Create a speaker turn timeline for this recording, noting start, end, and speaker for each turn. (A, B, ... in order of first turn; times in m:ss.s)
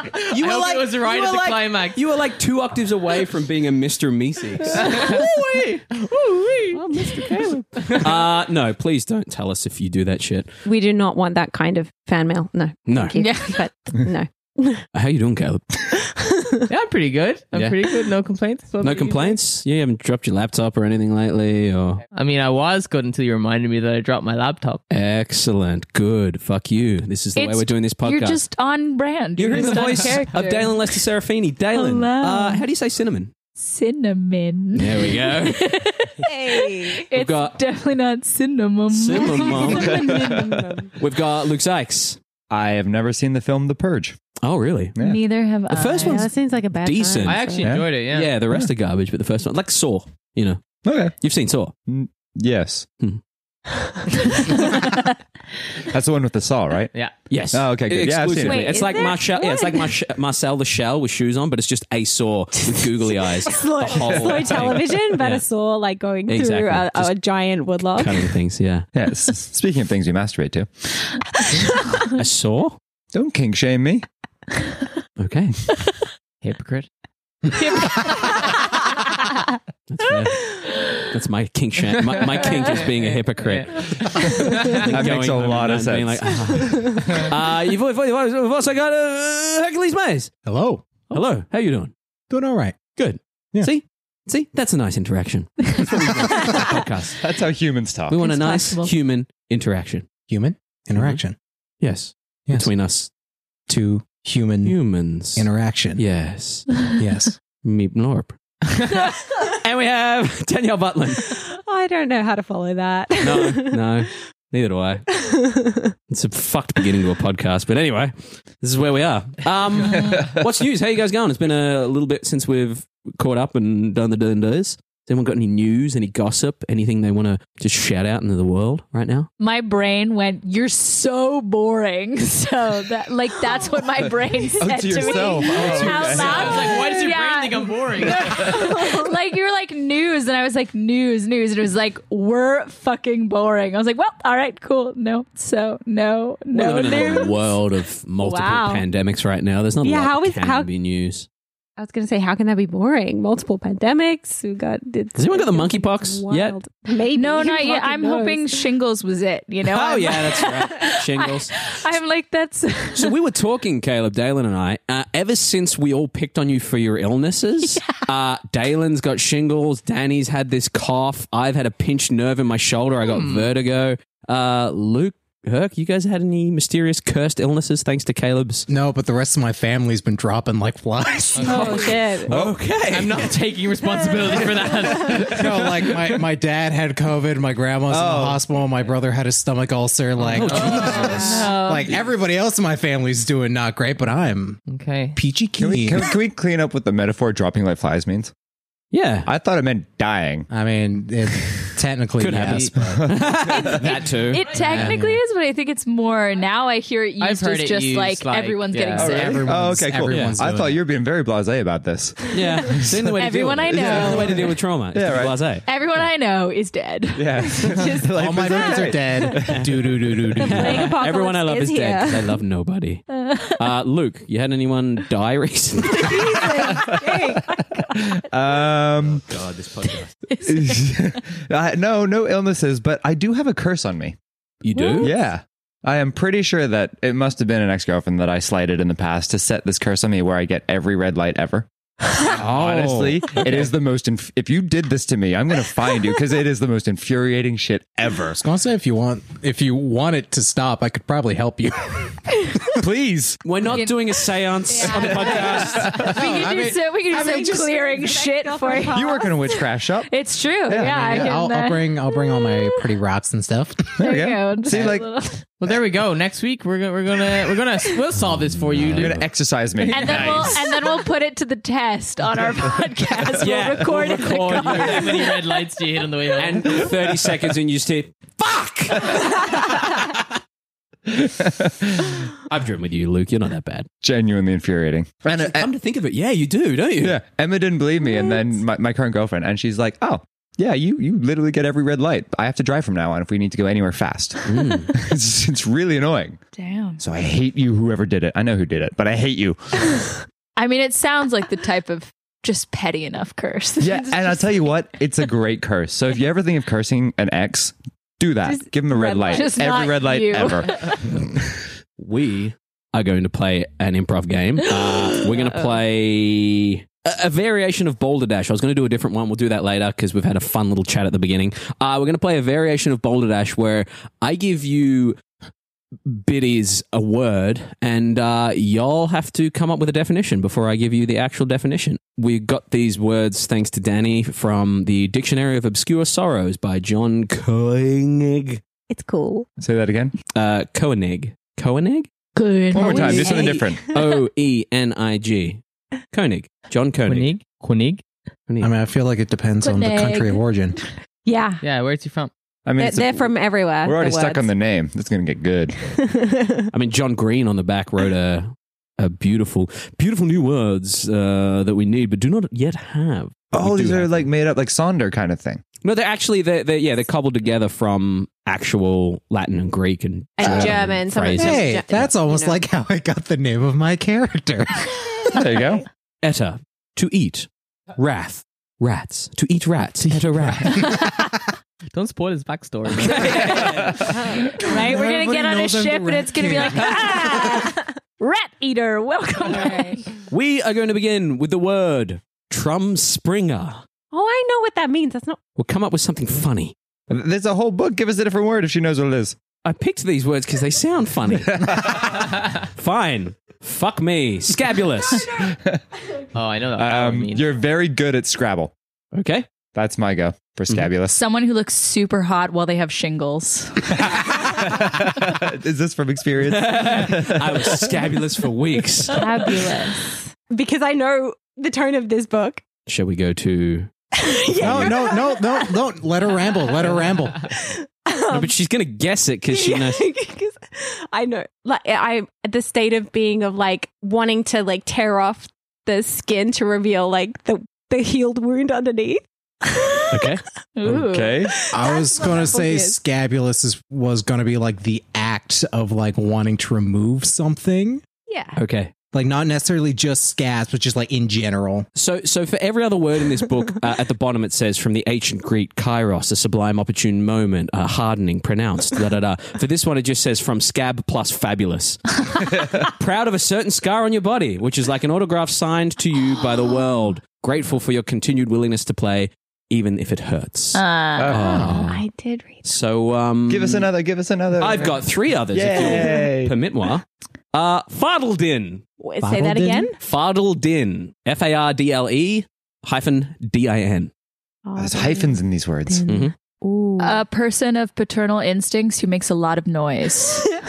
0:00.2-0:02.0 A
0:00.3-0:10.5 B
0:04.7-0:05.3 A
0:06.0-0:06.8 A
0:07.7-0:08.2 A
0:10.6-0:14.8 C
0:12.9-0:13.2 B
0:13.1-0:13.6 D
0:14.9-0:15.7 B
0:15.9-0:16.7 C
0:16.7-0:18.8 A
0:17.5-0:17.8 B
0:18.8-0:22.0 B
0:18.8-0:19.4 C
0:22.1-0:24.8 A
0:24.9-0:28.4 B
0:27.3-0:31.0 D
0:29.4-0:33.3 B
0:29.6-0:30.3 A
0:31.7-0:32.7 D
0:33.6-0:40.9 D
0:34.7-0:35.8 B
0:36.2-0:37.1 C
0:37.1-0:37.6 B
0:38.9-0:40.0 B
0:39.3-0:40.9 C
0:39.9-0:40.4 E
0:41.0-0:42.2 B
0:42.5-0:44.2 E
0:44.4-0:44.9 B
0:44.9-0:45.2 E
0:45.0-0:46.2 D
0:45.7-0:51.7 B
0:46.0-0:47.8 C
0:47.2-0:48.3 A
0:47.6-0:47.9 E
0:50.8-0:51.1 E
0:51.9-0:52.9 E
0:55.8-0:56.9 E
0:57.3-1:05.4 B
0:57.5-0:58.9 E
0:58.4-0:59.9 D
1:02.7-1:08.4 C
1:04.0-1:04.4 A
1:04.3-1:04.7 E
1:06.3-1:07.2 B
1:08.0-1:08.9 B
1:08.9-1:11.1 E
1:12.1-1:12.8 B
1:13.1-1:14.0 E
1:15.2-1:15.7 B
1:16.4-1:16.9 A
1:18.1-1:18.5 C
1:19.9-1:30.3 B
1:22.4-1:24.9 A
1:24.2-1:27.3 E
1:30.4-1:30.8 F
1:31.1-1:31.9 B
1:32.3-1:32.8 F
1:33.0-1:37.2 B
1:37.2-1:38.2 E
1:38.1-1:40.1 B
1:38.2-1:38.9 D
1:40.3-1:41.4 F
1:41.0-1:41.2 B
1:41.8-1:43.1 B
1:42.5-1:42.7 F
1:43.7-1:44.8 F
1:44.6-1:46.9 B
1:45.3-1:46.0 F
1:47.0-1:47.4 F
1:47.6-1:48.4 B
1:48.9-1:51.4 B
1:51.2-1:53.8 C
1:53.2-1:55.1 B
1:55.1-1:55.9 C
1:56.1-2:09.3 B
2:09.4-2:27.4 D
2:14.6-2:16.9 E
2:15.5-2:15.9 C
2:15.7-2:16.2 F
2:16.0-2:18.4 A
2:18.2-2:18.6 E
2:18.5-2:19.0 C
2:26.5-2:31.3 B
2:26.6-2:27.5 C
2:28.2-2:28.8 C
2:29.8-2:30.7 C
2:31.8-2:38.6 C
2:35.2-2:36.6 B
2:37.1-2:43.1 D
2:39.6-2:41.6 B
2:42.9-2:58.7 B
2:53.0-2:53.5 A
2:58.7-3:01.8 F
3:01.3-3:01.9 A
3:01.4-3:02.0 D
3:01.6-3:02.3 C
3:02.2-3:03.3 B
3:02.3-3:02.7 E
3:02.8-3:06.2 A
3:05.1-3:14.6 F
3:05.1-3:05.6 E
3:07.9-3:08.4 E
3:10.2-3:11.9 A
3:10.3-3:11.4 B
3:11.1-3:11.5 C
3:11.2-3:11.8 D
3:14.7-3:15.2 A
3:15.2-3:16.1 F
3:15.6-3:18.3 E
3:18.9-3:19.3 B
3:19.2-3:20.5 E
3:20.5-3:23.1 F
3:22.2-3:25.1 B
3:22.4-3:22.7 A
3:22.7-3:24.1 E
3:24.3-3:29.3 D
3:24.6-3:25.2 F
3:27.2-3:29.5 A
3:29.0-3:33.1 E
3:29.1-3:30.8 F
3:30.1-3:30.4 B
3:32.3-3:35.6 B
3:33.2-3:34.4 D
3:33.6-3:35.4 E
3:35.6-3:37.7 D
3:37.1-3:40.2 E
3:37.6-3:39.4 C
3:38.2-3:40.9 F
3:39.5-3:46.3 B
3:40.4-3:42.4 C
3:43.1-3:43.6 D
3:45.9-3:47.6 C
3:46.6-3:47.3 E
3:47.8-3:49.2 E
3:49.0-3:50.1 B
3:50.3-3:50.8 D
3:50.4-3:54.2 E
3:54.6-3:55.1 B
3:54.7-3:55.1 D
3:55.0-4:01.7 E
4:02.2-4:08.4 E
4:02.3-4:03.7 B
4:08.3-4:12.2 F
4:12.7-4:13.4 E
4:13.4-4:16.0 B
4:13.6-4:22.8 D
4:14.8-4:16.3 E
4:16.0-4:17.7 F
4:17.1-4:19.3 C
4:18.9-4:20.1 E
4:20.7-4:21.4 E
4:20.7-4:24.0 F
4:24.0-4:25.4 D
4:24.0-4:25.1 E
4:25.6-4:29.2 A
4:28.8-4:30.5 E
4:29.8-4:35.4 D
4:29.9-4:30.7 A
4:33.4-4:35.4 B
4:34.2-4:36.9 A
4:36.4-4:39.6 B
4:41.1-4:42.2 E
4:42.5-4:43.9 B
4:44.0-4:45.7 E
4:45.4-4:47.2 B
4:47.0-4:56.4 E
4:54.5-4:54.9 B
4:56.5-4:57.0 D
4:57.0-5:00.1 E
5:00.6-5:04.6 D
5:03.8-5:11.6 E
5:08.4-5:09.6 C
5:09.3-5:11.1 D
5:12.0-5:25.2 B
5:15.4-5:15.7 C
5:26.0-5:38.6 B
5:38.9-5:39.4 C
5:39.6-5:40.1 E
5:40.3-5:42.1 B
5:42.4-5:43.4 D
5:42.7-5:43.9 E
5:42.7-5:44.0 C
5:43.1-5:47.3 B
5:47.1-5:48.0 A
5:48.5-5:48.7 B
5:48.6-5:50.8 F
5:49.6-5:50.4 D
5:51.2-5:51.6 C
5:51.6-5:52.3 A
5:52.6-5:55.8 E
5:52.8-5:54.5 C
5:56.0-5:56.6 C
5:56.7-6:04.3 B
6:03.5-6:05.6 E
6:05.8-6:11.8 B
6:10.4-6:12.6 C
6:10.4-6:10.7 F
6:11.4-6:15.0 F
6:15.3-6:15.8 E
6:16.2-6:20.9 B
6:20.0-6:21.1 A
6:21.9-6:23.7 A
6:23.1-6:30.1 D
6:23.4-6:23.9 B
6:23.6-6:24.0 E
6:24.5-6:27.6 F
6:29.5-6:29.9 C
6:30.3-6:33.8 B
6:34.1-6:35.4 C
6:35.6-6:36.7 B
6:37.1-6:39.4 E
6:39.6-6:45.3 B
6:41.5-6:42.3 E
6:45.2-6:45.8 E
6:46.3-6:47.5 A
6:46.7-6:48.7 E
6:49.1-6:49.4 B
6:49.7-6:51.2 E
6:51.1-6:53.9 D
6:53.9-6:58.0 E
6:56.5-6:59.2 B
6:59.1-7:02.6 C
6:59.1-7:00.0 D
7:02.9-7:03.9 B
7:04.1-7:05.8 C
7:04.6-7:05.1 B
7:04.6-7:07.4 F
7:06.4-7:06.8 C
7:07.4-7:08.5 C
7:08.3-7:10.0 B
7:09.5-7:20.4 C
7:20.1-7:21.1 B
7:20.8-7:21.4 D
7:21.0-7:21.5 E
7:21.5-7:23.0 C
7:21.7-7:28.0 F
7:28.3-7:28.6 C
7:28.5-7:28.9 B
7:29.1-7:31.9 F
7:32.0-7:52.0 B
7:50.7-7:51.4 D
7:51.2-7:51.8 E
7:51.3-7:51.8 F
7:51.8-7:52.8 C
7:52.6-7:53.9 B
7:53.5-7:56.5 E
7:54.6-7:58.8 B
7:55.8-7:56.2 C
7:59.0-8:00.0 C
7:59.2-7:59.9 F
8:00.0-8:04.1 B
8:04.6-8:07.2 C
8:04.8-8:06.0 E
8:06.1-8:06.3 B
8:07.0-8:10.5 D